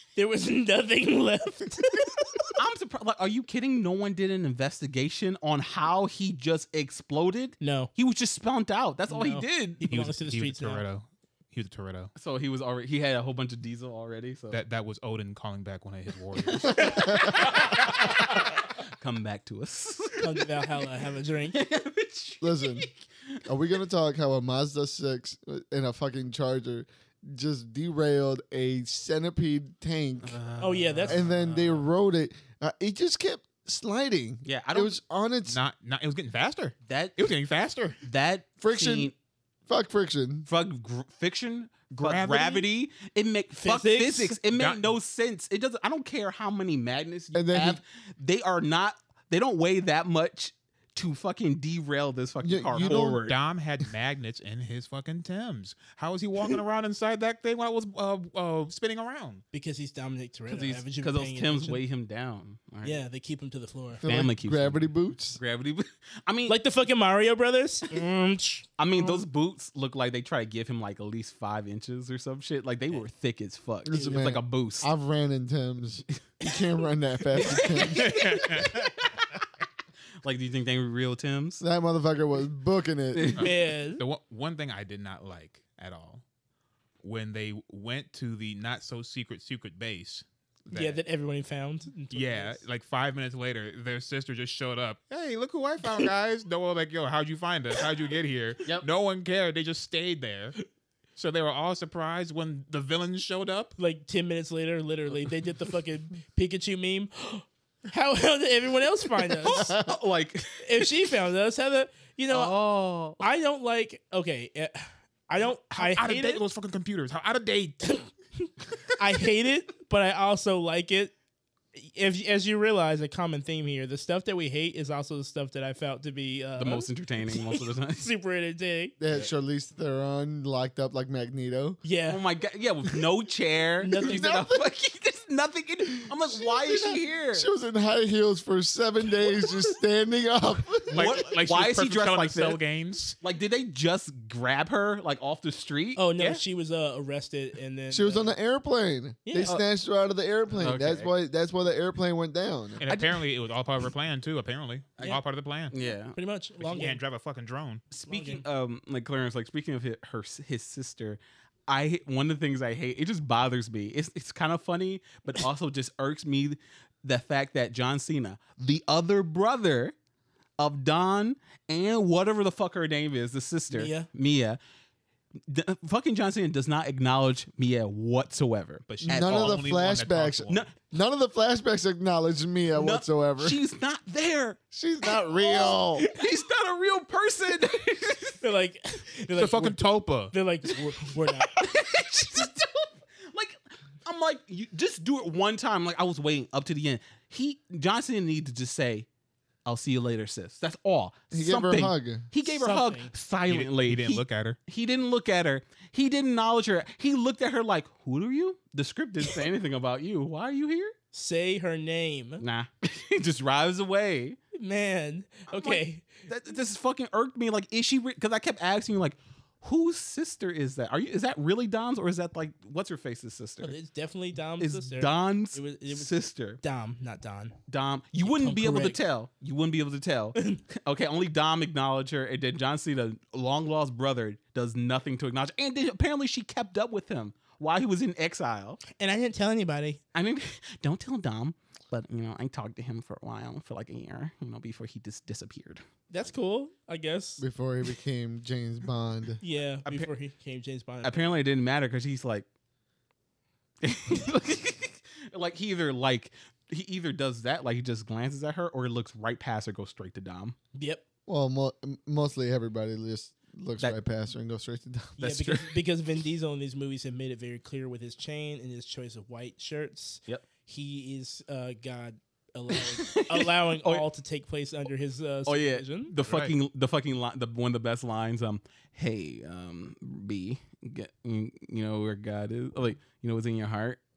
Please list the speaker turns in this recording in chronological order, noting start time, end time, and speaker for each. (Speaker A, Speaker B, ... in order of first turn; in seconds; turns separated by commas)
Speaker A: 0.2-2.5, Speaker B: 2.6-9.8, Speaker A: 7.6-7.9, Speaker A: 9.1-10.8, Speaker C: 9.8-12.1, Speaker B: 12.2-14.6, Speaker C: 14.5-18.1, Speaker B: 16.4-20.5, Speaker D: 16.8-17.5, Speaker A: 20.2-21.6, Speaker B: 21.5-23.4, Speaker D: 22.4-22.9, Speaker D: 23.4-30.4, Speaker B: 30.2-31.8, Speaker A: 30.6-31.2, Speaker D: 31.1-35.6, Speaker B: 34.5-35.0, Speaker C: 35.5-38.0, Speaker B: 36.9-37.3, Speaker B: 38.0-39.1, Speaker D: 38.6-39.1, Speaker D: 39.7-40.5, Speaker B: 40.5-53.4, Speaker C: 42.0-42.7, Speaker A: 43.6-44.4, Speaker C: 44.5-44.9, Speaker D: 47.3-47.8, Speaker D: 52.4-53.2, Speaker C: 52.8-59.4, Speaker A: 59.5-61.8, Speaker B: 60.5-63.0, Speaker A: 62.8-64.0, Speaker D: 64.0-65.4, Speaker B: 64.0-66.6, Speaker A: 66.5-69.2, Speaker B: 68.8-74.9, Speaker D: 73.9-78.3, Speaker A: 73.9-74.2, Speaker B: 77.3-78.9, Speaker C: 78.0-79.1, Speaker B: 80.2-81.6, Speaker D: 81.6-83.4, Speaker B: 83.1-83.5, Speaker A: 83.4-84.0, Speaker C: 83.4-86.2, Speaker C: 87.0-91.0, Speaker A: 90.7-92.6, Speaker C: 92.1-100.6, Speaker C: 101.2-103.8, Speaker A: 103.8-109.8, Speaker B: 109.4-111.1, Speaker D: 109.6-109.9, Speaker A: 110.6-112.6, Speaker B: 112.3-113.2, Speaker A: 113.2-116.4, Speaker C: 115.7-118.0, Speaker A: 118.0-121.1, Speaker A: 121.7-128.9, Speaker B: 126.6-128.1, Speaker D: 129.0-131.8, Speaker A: 131.8-132.2, Speaker B: 132.1-137.5, Speaker A: 133.8-134.3, Speaker D: 134.0-134.6, Speaker D: 136.1-141.2, Speaker B: 140.9-142.6, Speaker C: 140.9-143.2, Speaker B: 143.2-146.0, Speaker A: 146.0-148.3, Speaker D: 147.9-152.8, Speaker A: 149.2-149.6, Speaker B: 150.6-151.1, Speaker C: 152.8-155.7, Speaker B: 152.9-153.2, Speaker B: 155.0-156.2, Speaker A: 156.2-157.0, Speaker C: 156.6-157.8, Speaker B: 157.9-169.9, Speaker A: 158.1-158.4, Speaker B: 170.6-174.6, Speaker A: 173.7-174.1, Speaker B: 175.5-179.7, Speaker C: 178.9-180.7, Speaker D: 179.1-183.6, Speaker B: 182.7-184.6, Speaker D: 184.7-186.0, Speaker A: 185.4-186.2, Speaker B: 186.1-188.4, Speaker A: 188.4-191.7, Speaker C: 189.3-190.3, Speaker B: 191.5-199.1, Speaker B: 199.7-210.9, Speaker D: 201.3-202.3, Speaker A: 202.4-203.1, Speaker C: 203.5-204.6, Speaker A: 211.1-212.4, Speaker B: 212.4-214.4, Speaker A: 214.6-216.1, Speaker B: 215.5-223.8, Speaker A: 223.6-227.6, Speaker B: 224.6-226.6, Speaker B: 227.7-238.8, Speaker A: 228.2-229.0, Speaker A: 230.4-230.6, Speaker A: 238.9-240.0, Speaker B: 240.1-245.8, Speaker A: 246.1-247.4, Speaker D: 247.4-249.4, Speaker A: 249.4-251.4, Speaker B: 251.0-252.5, Speaker B: 253.8-260.6, Speaker A: 260.8-261.0, Speaker D: 261.3-265.2, Speaker A: 265.2-276.1, Speaker B: 265.2-265.8, Speaker B: 272.7-274.1, Speaker B: 275.5-284.0, Speaker C: 276.2-276.6